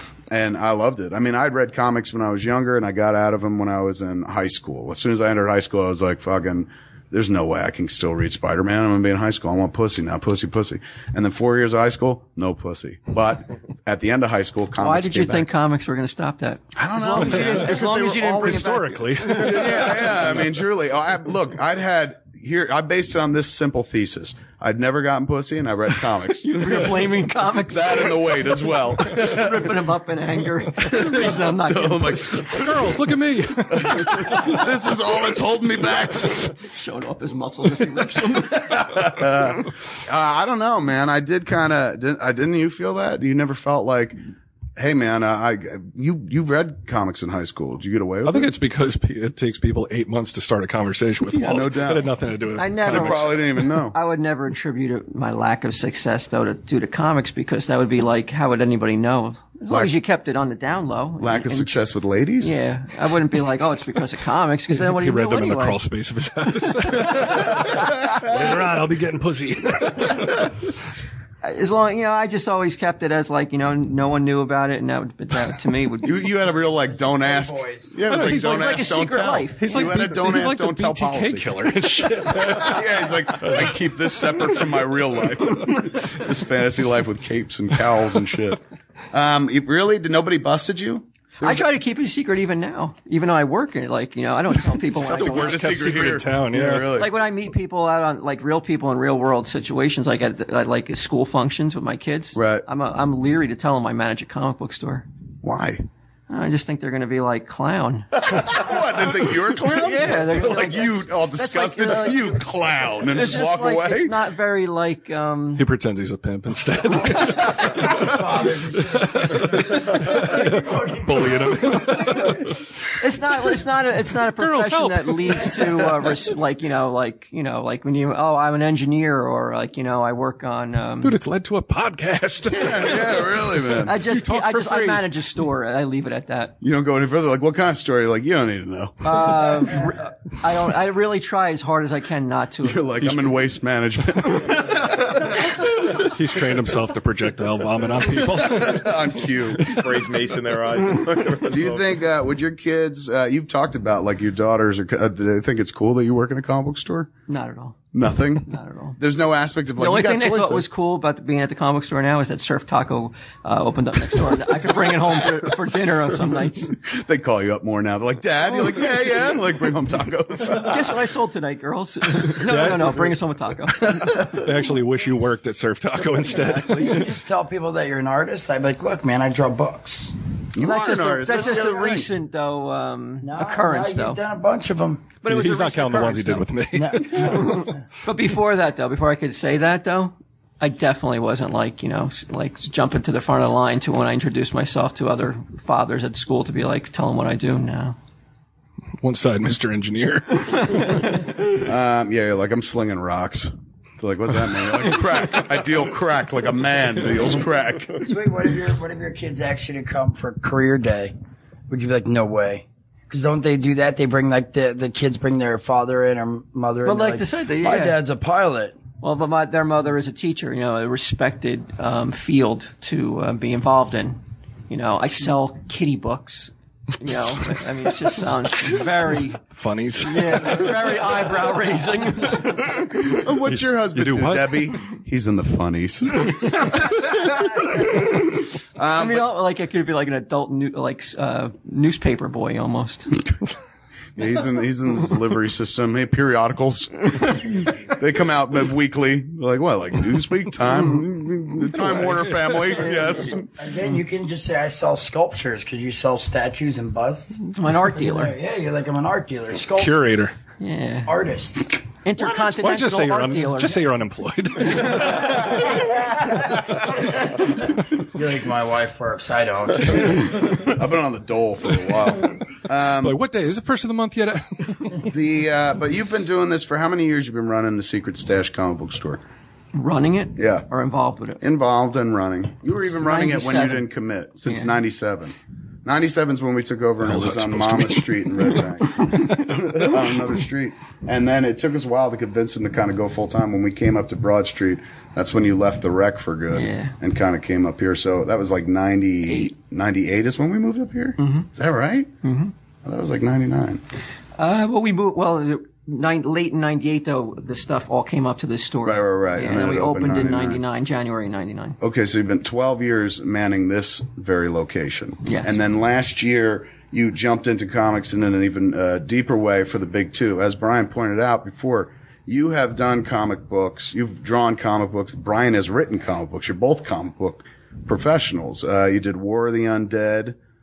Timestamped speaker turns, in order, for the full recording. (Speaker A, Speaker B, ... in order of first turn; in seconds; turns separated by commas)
Speaker A: 0.3-15.5, Speaker B: 14.8-19.8, Speaker A: 16.8-27.0, Speaker C: 17.2-17.7, Speaker C: 18.3-20.2, Speaker B: 26.4-28.2, Speaker A: 27.7-29.7, Speaker B: 29.1-32.6, Speaker A: 30.8-32.9, Speaker C: 32.5-34.5, Speaker A: 33.7-36.5, Speaker B: 34.2-34.6, Speaker B: 36.6-38.8, Speaker A: 38.4-44.2, Speaker A: 44.8-48.5, Speaker C: 48.2-53.4, Speaker A: 51.2-52.1, Speaker B: 52.6-61.8, Speaker A: 52.8-54.0, Speaker A: 59.7-59.9, Speaker A: 61.2-62.5, Speaker B: 62.4-65.8, Speaker C: 64.8-70.5, Speaker B: 71.4-76.3, Speaker A: 76.0-81.6, Speaker D: 76.8-78.0, Speaker C: 78.1-78.8, Speaker B: 78.1-79.8, Speaker C: 79.6-83.8, Speaker A: 82.3-88.6, Speaker A: 89.1-91.7, Speaker B: 91.4-95.7, Speaker C: 95.0-97.0, Speaker A: 95.0-97.1, Speaker B: 96.9-105.1, Speaker A: 102.3-102.7, Speaker A: 105.4-105.8, Speaker B: 106.3-108.5, Speaker A: 108.2-114.2, Speaker B: 109.6-112.4, Speaker B: 113.1-115.7, Speaker C: 115.6-118.1, Speaker D: 117.2-122.1, Speaker C: 118.8-122.6, Speaker B: 123.0-131.2, Speaker C: 124.4-126.1, Speaker C: 131.0-135.1, Speaker A: 132.5-133.9, Speaker B: 133.8-136.5, Speaker A: 136.6-139.2, Speaker B: 139.0-143.2, Speaker A: 142.6-145.3, Speaker C: 145.9-149.1, Speaker A: 148.2-149.8, Speaker C: 149.6-149.8, Speaker E: 149.6-151.9, Speaker A: 151.5-157.1, Speaker B: 157.3-157.9, Speaker A: 157.9-160.7, Speaker B: 158.4-159.0, Speaker B: 159.8-166.8, Speaker A: 166.8-170.9, Speaker B: 170.6-174.0, Speaker C: 172.4-173.1, Speaker C: 174.1-177.1, Speaker D: 176.3-180.2, Speaker A: 180.5-182.1, Speaker B: 180.6-184.2, Speaker D: 183.2-185.1, Speaker B: 185.2-186.5, Speaker C: 185.3-187.6, Speaker D: 186.7-187.7, Speaker B: 187.1-198.0, Speaker C: 199.0-201.2, Speaker A: 201.5-208.0, Speaker D: 208.0-211.1, Speaker D: 211.7-218.8, Speaker B: 216.8-218.0, Speaker B: 219.0-229.4, Speaker C: 229.5-230.8, Speaker B: 230.0-232.9, Speaker A: 233.1-236.8, Speaker C: 233.5-234.7, Speaker A: 238.8-239.3, Speaker B: 238.9-243.1, Speaker A: 244.2-253.5, Speaker C: 251.8-252.6, Speaker D: 253.6-260.0, Speaker B: 257.5-258.3, Speaker C: 259.7-260.4, Speaker B: 260.6-261.1, Speaker D: 261.1-261.8, Speaker B: 262.0-263.8, Speaker C: 262.2-265.8, Speaker D: 265.7-266.3, Speaker D: 267.9-270.6, Speaker A: 270.4-273.2, Speaker C: 273.0-275.0, Speaker A: 275.1-279.2, Speaker B: 279.7-281.4, Speaker A: 280.4-280.7, Speaker A: 281.4-302.1, Speaker B: 282.8-283.9, Speaker C: 287.0-289.7, Speaker B: 296.5-296.9, Speaker B: 299.3-299.5, Speaker B: 301.2-301.5, Speaker B: 302.2-302.5, Speaker A: 302.8-303.8, Speaker B: 304.4-311.8, Speaker A: 308.8-310.6, Speaker A: 311.8-330.4, Speaker B: 315.2-315.5